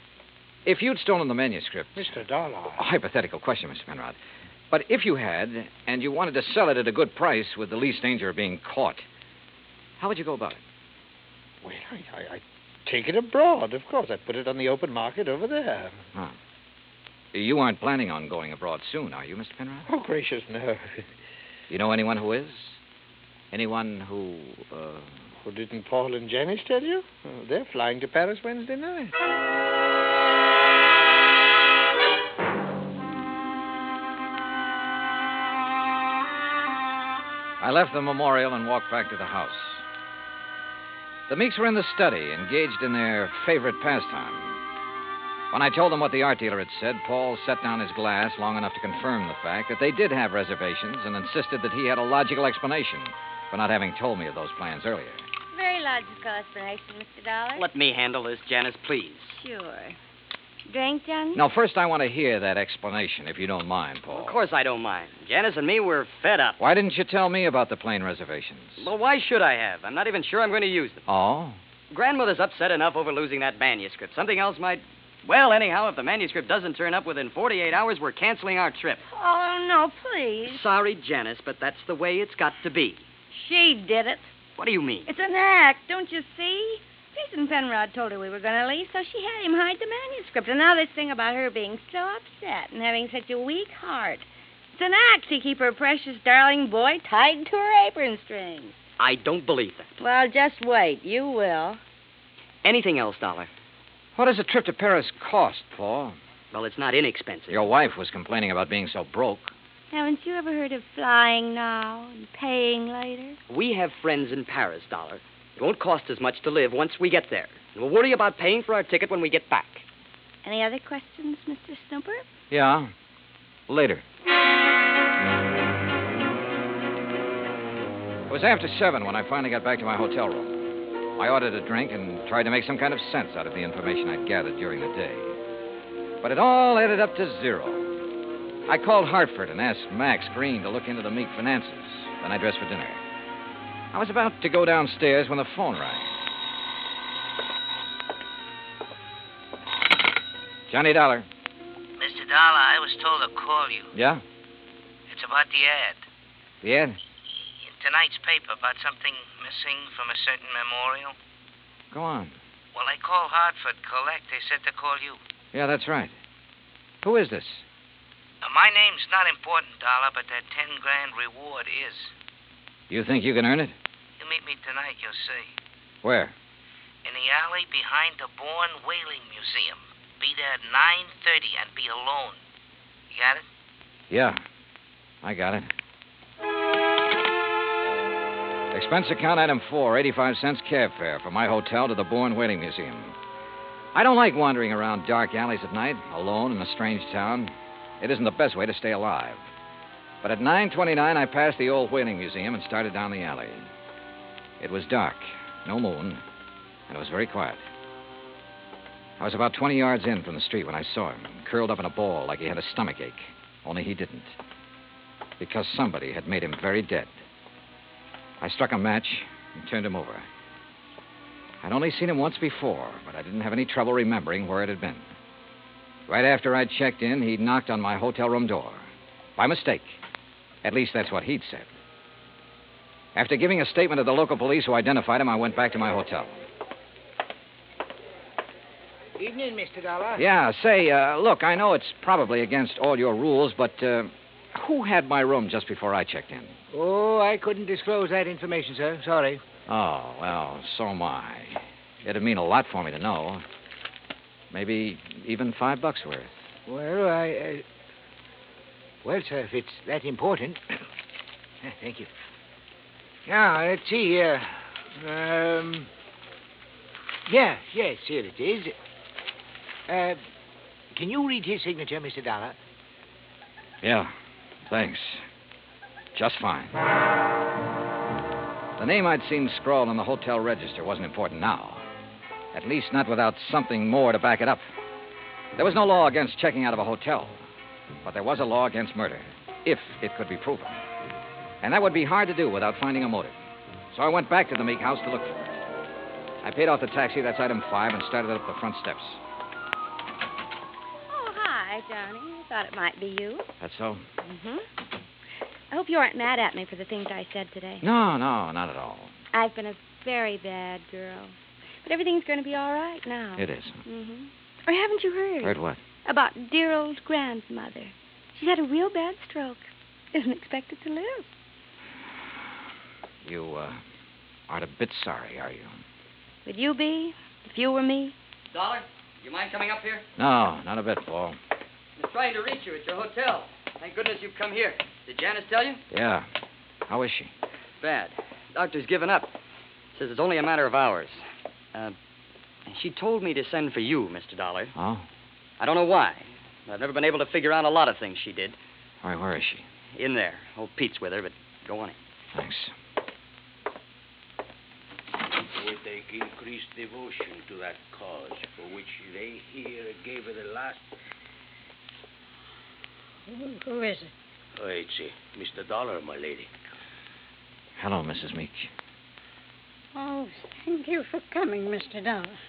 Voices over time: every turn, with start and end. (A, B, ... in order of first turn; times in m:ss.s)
0:00.6-0:02.2 A
0:02.0-0:02.9 B
0:02.8-0:04.2 A
0:04.7-0:09.0 A
0:10.0-0:10.6 A
0:11.6-0:16.0 B
0:17.3-0:19.9 A
0:19.8-0:21.1 B
0:21.7-0:22.8 A
0:23.5-0:25.1 A
0:25.4-0:29.1 B
0:37.6-0:39.8 A
0:41.3-0:44.6 A
0:45.5-0:55.2 A
0:55.5-0:57.6 C
0:57.5-0:59.4 D
0:59.4-1:00.0 C
1:00.7-1:01.4 C
1:01.3-1:04.4 A
1:04.1-1:06.6 D
1:06.6-1:08.8 A
1:08.8-1:11.0 D
1:11.1-1:11.6 A
1:11.9-1:19.0 D
1:19.1-1:20.6 C
1:20.4-1:23.0 D
1:23.3-1:24.3 C
1:24.6-1:25.1 D
1:25.1-1:38.7 C
1:39.0-1:39.9 D
1:40.0-1:41.8 C
1:42.6-1:43.5 D
1:44.2-1:46.2 A
1:46.5-1:47.7 D
1:47.5-1:49.5 A
1:49.9-1:53.4 C
1:53.5-1:59.8 D
2:00.4-2:02.2 C
2:02.5-2:02.9 A
2:03.7-2:04.0 A
2:08.3-2:15.4 A
2:16.2-2:17.9 A
2:18.7-2:23.0 A
2:23.9-2:26.1 A
2:30.7-2:31.3 A
2:32.0-2:33.9 E
2:33.9-2:34.2 A
2:35.1-2:36.0 E
2:36.6-2:37.0 A
2:37.6-2:41.1 E
2:41.9-2:42.3 A
2:42.7-2:45.2 E
2:45.5-2:46.1 A
2:47.0-2:47.6 A
2:48.4-2:52.1 E
2:52.9-2:53.7 A
2:54.2-2:55.5 E
2:56.0-2:56.3 A
2:57.0-3:02.4 E
3:03.1-3:03.4 E
3:04.1-3:04.4 A
3:05.2-3:05.7 A
3:08.7-3:13.1 A
3:13.9-3:19.4 A
3:20.2-3:23.7 A
3:24.6-3:26.2 A
3:26.9-3:27.6 A
3:29.2-3:34.3 A
3:35.4-3:37.1 A
3:38.4-3:40.2 A
3:41.6-3:45.0 A
3:46.1-3:50.0 A
3:50.6-3:51.7 A
3:53.1-3:56.4 A
3:59.2-4:00.2 F
4:00.2-4:06.5 A
4:06.7-4:09.4 F
4:09.7-4:13.4 A
4:14.5-4:16.4 A
4:16.6-4:17.6 F
4:19.0-4:20.8 F
4:21.6-4:22.1 F
4:23.2-4:25.9 F
4:27.3-4:28.8 F
4:29.9-4:30.2 F
4:30.9-4:32.6 F
4:33.8-4:34.1 A
4:34.7-4:35.2 A
4:36.1-4:36.7 A
4:38.8-4:41.8 A
4:42.5-4:44.6 A
4:45.6-4:47.4 A
4:48.0-4:50.8 A
4:51.6-4:53.3 A
4:53.9-4:55.6 A
4:56.4-4:59.2 A
5:01.1-5:03.5 C
5:03.6-5:04.0 A
5:04.2-5:04.6 C
5:05.7-5:07.8 C
5:07.8-5:09.1 A
5:09.3-5:21.3 C
5:13.4-5:13.8 A
5:15.4-5:15.8 A
5:23.2-5:23.8 A
5:24.5-5:25.8 A
5:26.4-5:28.1 C
5:28.5-5:30.0 D
5:30.2-5:31.4 A
5:32.0-5:35.8 D
5:35.9-5:36.3 A
5:36.9-5:37.3 A
5:37.8-5:39.3 D
5:39.9-5:41.9 D
5:42.7-5:44.7 D
5:44.8-5:45.0 A
5:45.6-5:48.6 D
5:49.0-5:49.6 A
5:49.9-5:52.0 D
5:52.3-5:52.7 A
5:55.4-6:00.8 G
6:03.3-6:04.1 H
6:04.6-6:06.5 G
6:07.8-6:08.7 A
6:09.9-6:12.4 H